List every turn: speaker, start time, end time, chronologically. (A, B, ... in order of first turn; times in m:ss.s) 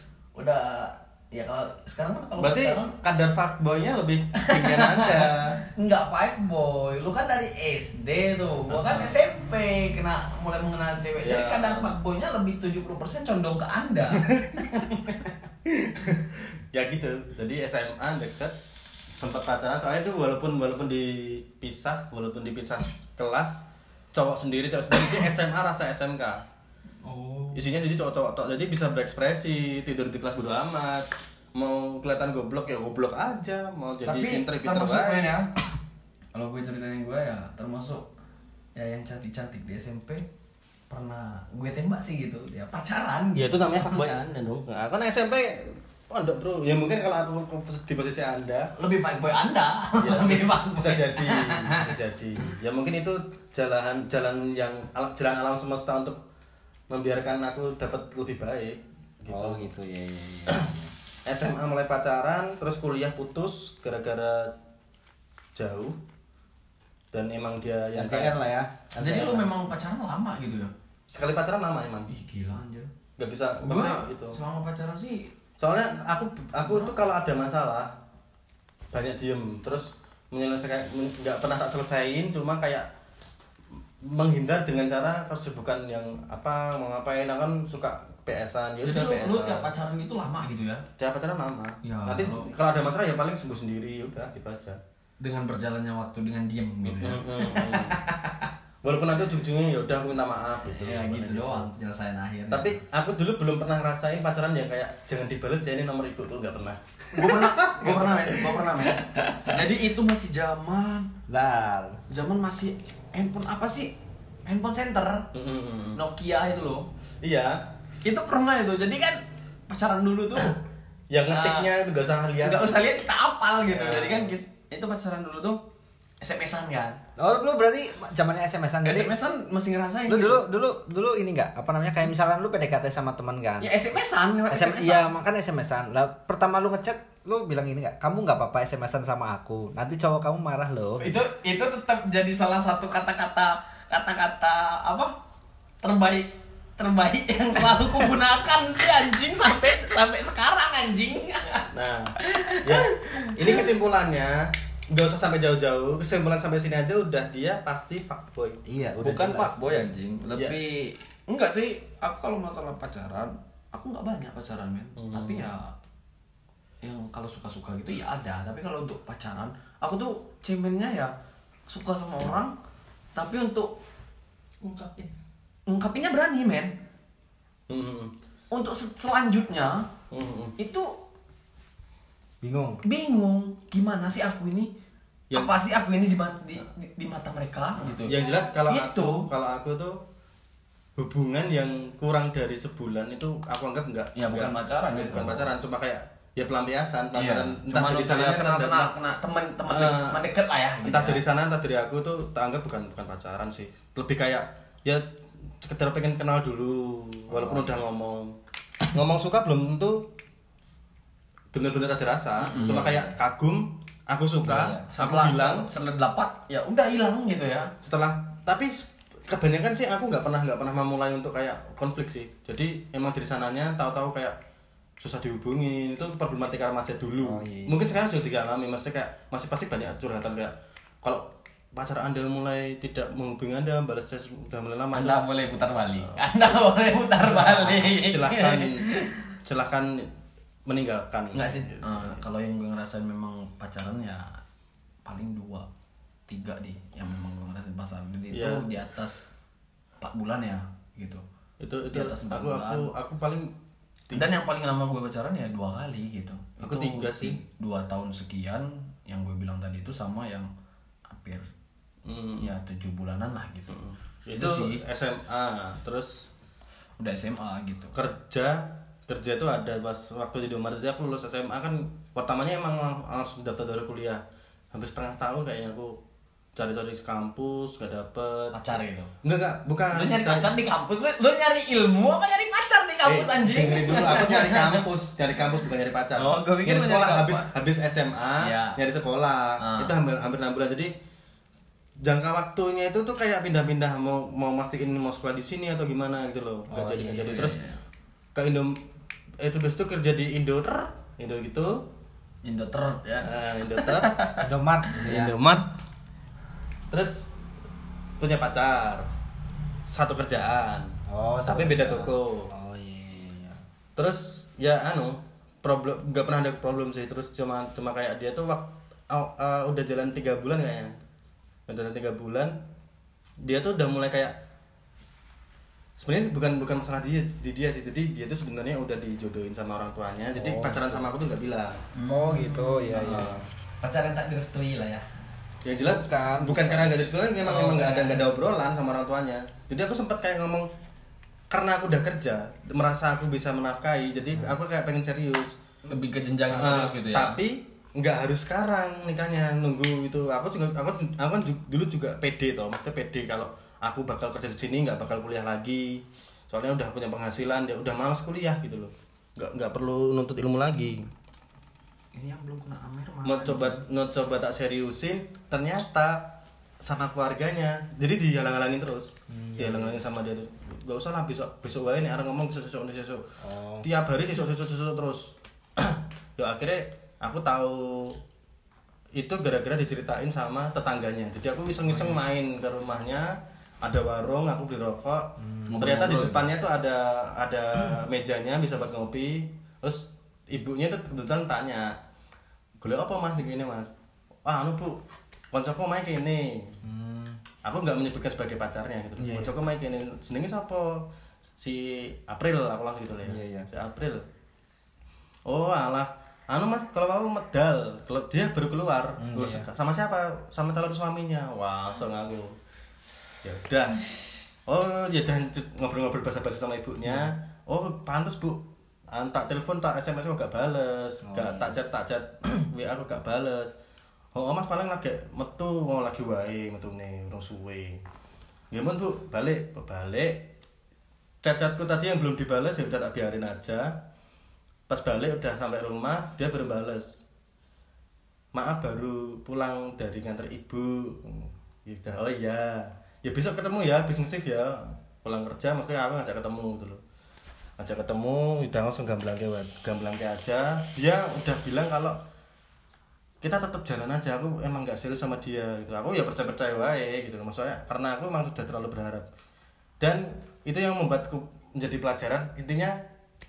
0:00.4-0:02.9 A
0:02.4-0:05.6 B
0:04.4-0:15.3 A
0:08.7-0:09.2 B
0:11.2-0:12.0 B
0:14.2-0:14.7 B
0:15.7-0:18.6 B
0:19.1-0:26.4 B
0:27.0-0:27.6 A
0:27.5-0:35.4 B
0:34.1-0:35.5 A
0:36.3-0:38.1 A
0:38.8-0:40.2 A
0:40.9-0:44.1 A
0:43.4-0:48.7 B
0:48.8-0:51.9 A
0:50.0-0:56.2 B
0:56.9-0:59.7 B
0:59.3-1:00.9 C
1:01.3-1:04.5 B
1:05.6-1:06.0 B
1:07.1-1:08.4 B
1:07.9-1:09.4 C
1:09.0-1:10.7 A
1:09.1-1:09.4 B
1:11.1-1:12.1 B
1:12.1-1:12.9 A
1:13.2-1:14.4 B
1:13.7-1:15.3 A
1:15.6-1:17.9 B
1:16.6-1:17.0 A
1:18.9-1:22.9 B
1:24.0-1:29.7 B
1:28.8-1:30.8 A
1:31.0-1:34.8 B
1:31.8-1:32.5 A
1:35.2-1:38.5 A
1:36.9-1:38.0 B
1:38.8-1:41.7 B
1:40.6-1:42.8 A
1:42.5-1:49.6 B
1:47.1-1:51.1 A
1:51.3-1:52.0 C
1:52.1-1:53.9 A
1:54.5-1:55.3 A
1:55.3-1:56.0 B
1:56.0-1:56.9 A
1:57.2-1:57.6 B
1:58.0-2:00.6 A
2:01.1-2:02.7 B
2:01.3-2:01.7 A
2:02.4-2:05.6 A
2:03.7-2:04.3 B
2:06.2-2:07.0 A
2:07.2-2:09.1 C
2:08.8-2:10.4 A
2:10.1-2:13.7 C
2:13.6-2:15.1 A
2:14.5-2:21.1 C
2:21.0-2:25.1 A
2:25.8-2:31.7 A
2:31.7-2:38.6 B
2:32.2-2:33.7 A
2:38.7-2:39.8 C
2:39.0-2:45.7 A
2:45.0-2:45.5 B
2:46.8-2:51.1 A
2:51.7-2:52.5 A
2:53.2-2:53.7 A
2:54.6-2:55.0 A
2:55.7-2:56.7 A
2:57.7-2:58.1 B
2:58.5-2:59.9 A
3:00.1-3:00.6 B
3:00.6-3:00.9 A
3:02.4-3:02.8 C
3:02.8-3:04.7 A
3:05.3-3:05.6 B
3:05.3-3:09.3 A
3:07.8-3:10.0 B
3:11.0-3:18.9 B
3:14.2-3:15.5 A
3:17.1-3:21.2 A
3:19.7-3:20.3 B
3:20.8-3:25.1 B
3:25.6-3:28.4 B
3:27.3-3:27.7 C
3:28.9-3:30.1 B
3:31.5-3:35.7 B
3:32.4-3:33.0 A
3:32.6-3:33.1 C
3:34.5-3:34.9 C
3:34.9-3:37.7 A
3:37.8-3:44.4 B
3:45.0-3:55.2 B
3:47.2-3:47.8 C
3:54.9-3:59.2 A
3:56.0-3:56.6 B
3:57.2-3:58.9 B
3:59.4-4:00.1 B
4:00.7-4:02.2 B
4:01.3-4:04.4 A
4:05.0-4:05.7 A
4:06.3-4:09.3 A
4:08.3-4:08.6 B
4:10.0-4:11.2 A
4:11.6-4:13.5 B
4:11.9-4:12.9 A
4:14.1-4:20.5 A
4:16.6-4:17.4 B
4:21.1-4:21.4 A
4:22.0-4:22.5 B
4:22.4-4:23.8 A
4:23.7-4:26.3 B
4:24.3-4:24.8 A
4:27.0-4:27.9 A
4:27.9-4:34.2 B
4:34.7-4:36.0 B
4:36.6-4:38.6 B
4:38.5-4:39.1 A
4:39.2-4:40.6 B
4:39.9-4:44.8 A
4:43.0-4:50.9 B
4:46.2-4:47.5 A
4:48.4-4:48.8 A
4:49.6-4:49.9 A
4:52.0-4:57.6 B
4:56.7-4:57.8 A
4:58.4-4:58.8 B
4:59.4-5:01.8 B
5:02.4-5:04.5 A
5:03.2-5:04.2 B
5:04.4-5:05.4 C
5:05.0-5:05.8 B
5:06.9-5:07.3 B
5:08.2-5:09.1 B
5:09.9-5:10.9 B
5:11.1-5:13.6 C
5:11.4-5:12.5 B
5:14.0-5:21.0 B
5:21.7-5:22.6 B
5:23.4-5:24.4 B
5:26.0-5:31.8 B
5:30.4-5:31.1 C
5:32.0-5:35.0 A
5:32.0-5:33.4 C
5:33.0-5:33.4 B
5:35.6-5:40.7 B
5:35.8-5:37.0 C
5:37.4-5:38.4 A
5:41.5-5:45.6 B
5:45.9-5:47.4 A
5:46.5-6:01.1 B
6:02.1-6:03.8 A
6:03.2-6:13.3 B
6:09.3-6:10.0 C
6:13.4-6:13.9 C
6:13.8-6:18.2 B
6:19.2-6:32.0 B
6:25.4-6:25.9 C
6:25.7-6:26.5 A
6:32.8-6:33.9 B
6:34.4-6:35.0 B
6:35.5-6:36.8 B
6:36.8-6:37.4 C
6:37.6-6:41.1 B
6:39.2-6:39.7 C
6:41.6-6:44.2 B
6:43.2-6:43.7 C
6:45.5-6:52.6 B
6:49.2-6:49.7 C
6:53.4-7:03.7 B
7:01.2-7:01.7 C
7:04.4-7:08.0 B
7:08.7-7:10.4 B
7:11.4-7:13.9 B
7:14.9-7:17.2 B
7:18.5-7:27.0 B
7:27.8-7:32.2 B
7:33.4-7:39.3 B
7:40.0-7:43.0 B